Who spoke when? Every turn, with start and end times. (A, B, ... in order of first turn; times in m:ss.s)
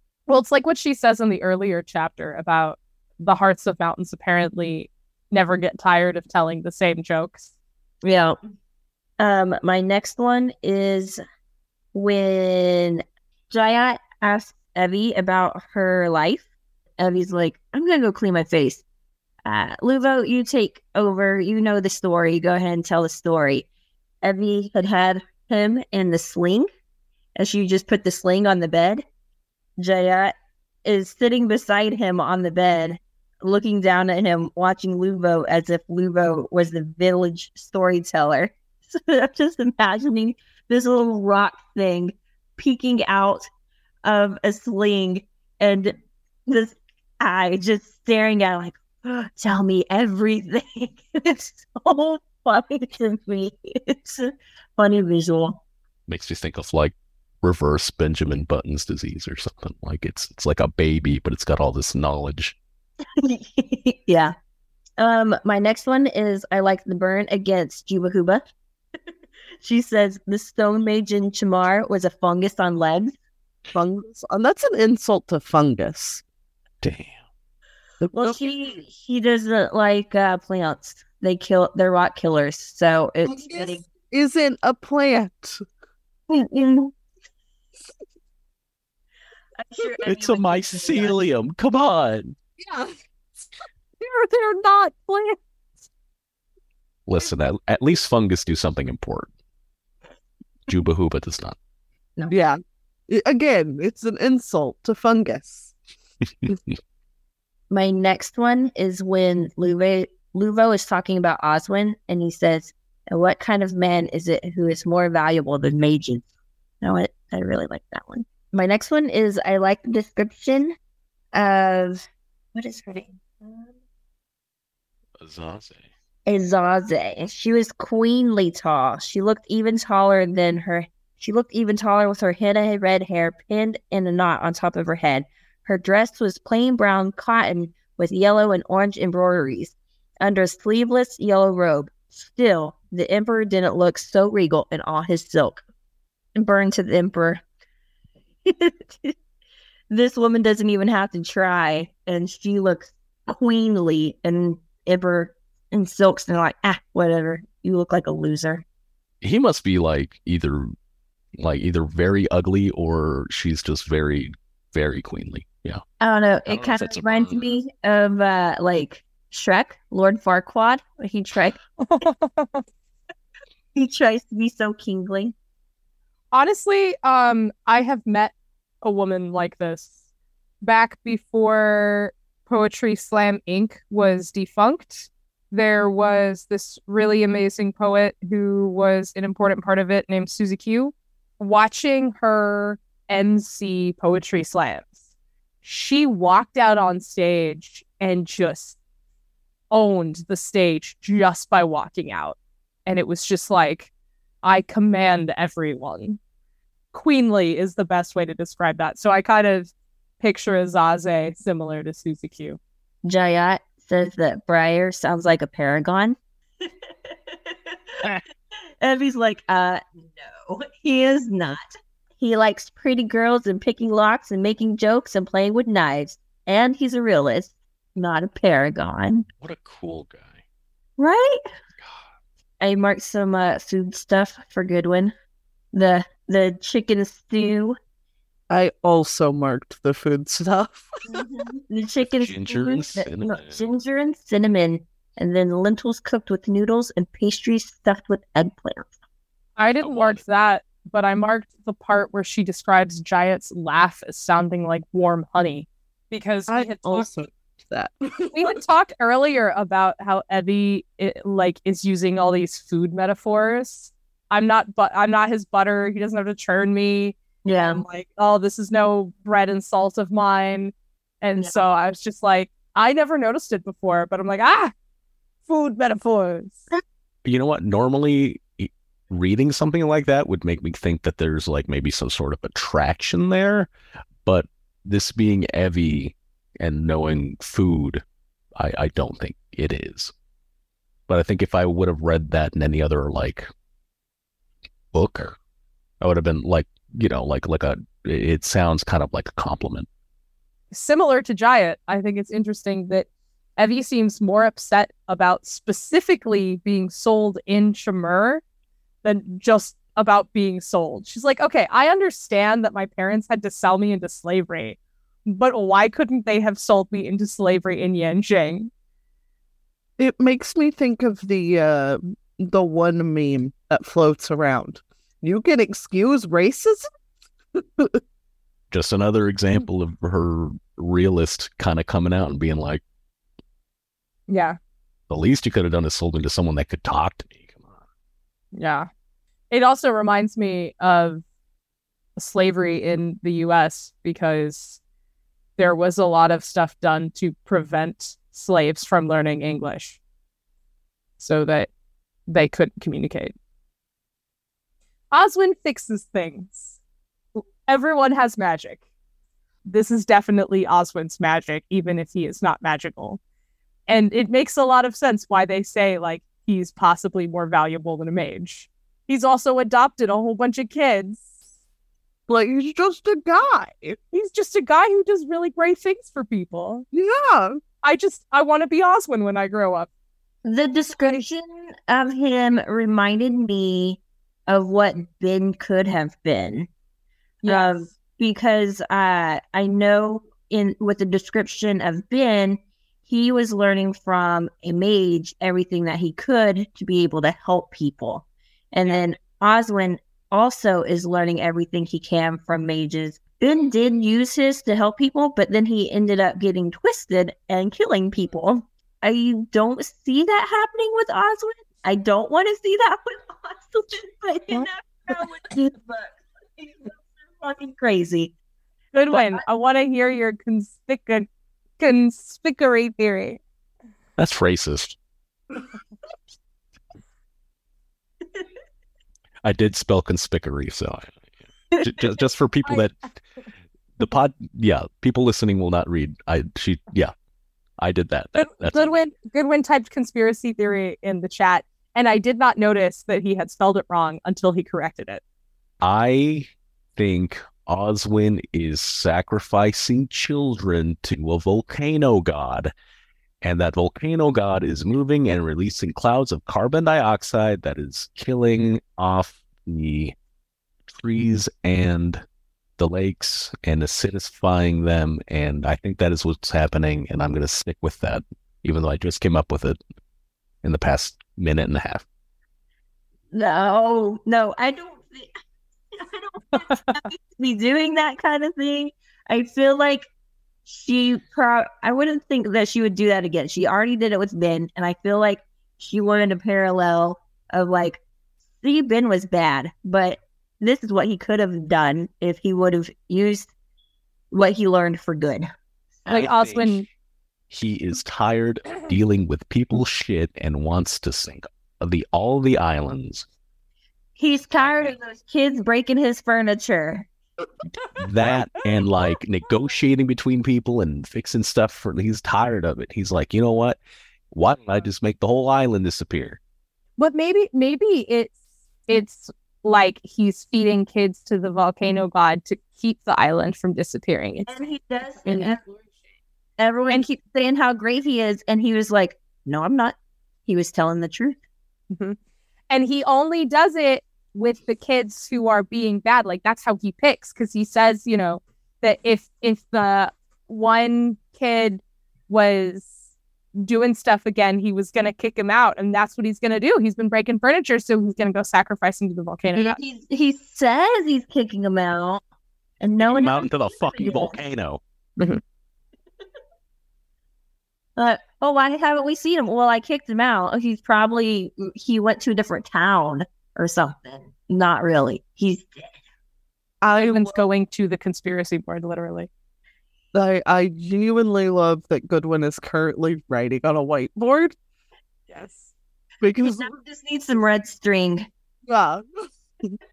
0:00.3-0:07.5 A
0:08.0-0:08.4 B
0:09.2-0:11.2 B
0:11.9-0:16.4 B
0:17.0-0:18.8 B
0:19.4-0:23.7 B
0:24.2-0:26.7 B
0:27.4-0:29.0 B
0:29.8-0:30.3 B
0:30.8-0:43.5 B
0:44.0-0:55.6 B
0:56.1-1:02.6 C
1:03.2-1:04.3 B
1:05.0-1:08.5 B
1:09.6-1:13.1 B
1:13.7-1:16.2 D
1:16.8-1:17.2 C
1:18.0-1:18.4 D
1:18.2-1:23.8 B
1:23.3-1:25.6 D
1:26.3-1:26.9 B
1:29.6-1:31.2 B
1:30.0-1:32.4 C
1:32.6-1:32.9 D
1:34.0-1:35.4 D
1:37.1-1:39.3 C
1:40.7-1:41.6 C
1:42.3-1:45.7 D
1:47.7-1:56.2 B
1:56.8-2:00.8 B
2:01.3-2:03.7 B
2:05.2-2:05.9 C
2:06.2-2:25.6 B
2:26.3-2:27.4 B
2:28.4-2:29.1 B
2:29.9-2:38.6 B
2:39.2-2:40.7 C
2:41.4-2:45.8 C
2:46.0-2:51.6 B
2:46.5-2:47.5 C
2:51.8-2:52.6 A
2:53.7-2:55.3 B
2:56.3-2:59.9 A
3:00.6-3:15.0 A
3:15.6-3:18.8 A
3:19.7-3:23.9 A
3:24.4-3:26.2 A
3:26.9-3:32.6 A
3:33.0-3:36.2 B
3:38.8-3:49.2 B
3:49.4-3:50.4 C
3:51.0-3:51.4 B
3:52.6-3:55.1 B
3:55.7-3:57.8 B
3:58.5-4:01.2 D
4:01.1-4:08.9 B
4:02.0-4:03.7 C
4:09.6-4:17.1 A
4:09.8-4:10.2 C
4:16.5-4:18.6 D
4:18.3-4:34.7 A
4:27.4-4:27.8 B
4:35.4-4:36.6 A
4:37.2-4:43.7 C
4:44.2-4:48.0 C
4:48.6-4:50.1 C
4:51.1-4:53.5 C
4:54.9-4:55.4 C
4:56.0-4:59.9 C
5:00.7-5:08.4 A
5:09.0-5:18.7 A
5:20.0-5:26.9 D
5:27.6-5:28.0 D
5:28.7-5:32.8 C
5:34.3-5:34.6 A
5:35.1-5:37.8 C
5:38.5-5:38.9 A
5:39.5-5:41.2 A
5:42.2-5:44.8 A
5:45.6-5:50.0 A
5:51.2-5:51.7 A
5:52.3-5:53.3 A
5:55.1-5:56.8 A
5:57.4-5:58.8 A
5:59.6-6:03.2 A
6:03.9-6:11.3 A
6:12.3-6:14.0 D
6:14.1-6:16.8 A
6:16.9-6:17.6 D
6:17.8-6:19.9 A
6:20.4-6:26.7 B
6:27.4-6:27.9 A
6:27.4-6:58.3 B
6:58.9-7:01.3 A
7:01.8-7:03.4 A
7:04.2-7:05.0 C
7:09.4-7:13.1 C
7:14.0-7:17.1 C
7:17.8-7:19.0 C
7:18.4-7:25.2 A
7:25.8-7:32.7 C
7:33.4-7:40.1 C
7:40.9-7:42.2 C
7:42.8-7:49.8 C
7:50.6-7:52.0 C
7:53.3-7:55.3 B
7:55.9-8:00.1 B
7:56.6-7:57.0 A
8:00.6-8:08.0 B
8:08.6-8:13.5 B
8:14.3-8:15.5 B
8:16.1-8:16.8 A
8:16.1-8:16.8 C
8:17.5-8:23.2 C
8:24.2-8:27.1 B
8:24.6-8:24.9 C
8:28.0-8:33.8 C
8:34.3-8:36.4 C
8:37.0-8:38.4 A
8:38.9-8:46.0 A
8:44.5-8:45.6 B
8:46.6-8:50.0 B
8:50.5-8:51.4 B
8:51.9-8:52.2 A
8:52.7-9:02.9 A
9:03.6-9:09.8 A
9:09.5-9:12.2 B
9:12.8-9:14.4 B
9:13.0-9:14.8 C
9:18.0-9:25.9 B
9:26.8-9:27.3 D
9:27.0-9:29.3 A
9:30.1-9:34.5 D
9:35.3-9:35.7 A
9:36.2-9:36.7 D
9:36.4-9:38.3 B
9:38.7-9:39.0 D